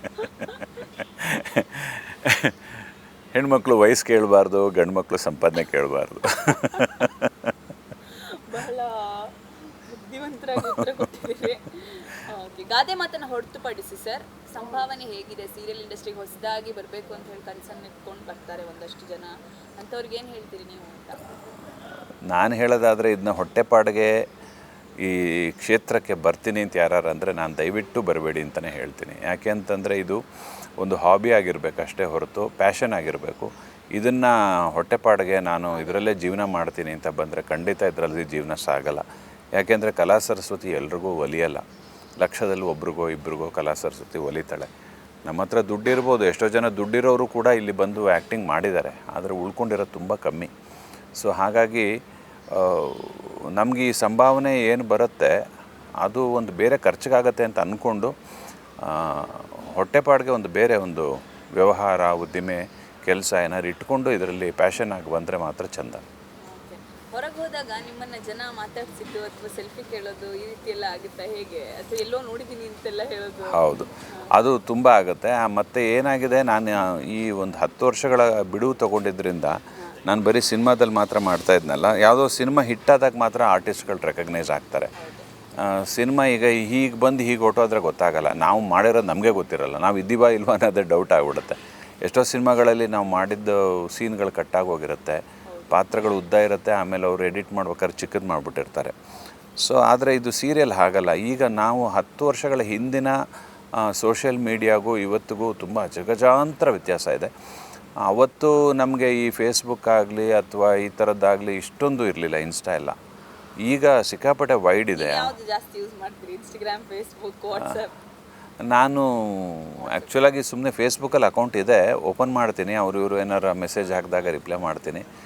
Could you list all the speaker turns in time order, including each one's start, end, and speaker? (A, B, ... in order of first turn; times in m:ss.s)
0:00.1-0:00.9 A
0:01.2-0:07.5 B
0:08.0-0:21.3 A
0:10.6-0:11.0 B
0:22.3-0:24.1 B
0:25.0-0:30.2 B
0:30.8-0:39.0 B
0:35.7-0:36.1 A
0:39.6-0:41.6 B
0:42.2-0:44.7 B
0:45.2-0:50.5 B
0:51.2-0:51.9 B
0:52.5-0:55.4 B
0:56.0-0:58.1 B
0:58.8-1:06.0 B
1:06.4-1:14.4 A
1:13.4-1:24.9 B
1:25.0-1:25.3 A
1:25.6-1:38.9 B
1:35.4-1:35.8 A
1:39.6-1:43.2 B
1:43.8-1:47.3 B
1:48.0-1:52.9 B
1:53.6-1:55.3 B
1:54.9-1:58.0 A
1:58.6-2:05.0 B
1:59.8-2:00.2 A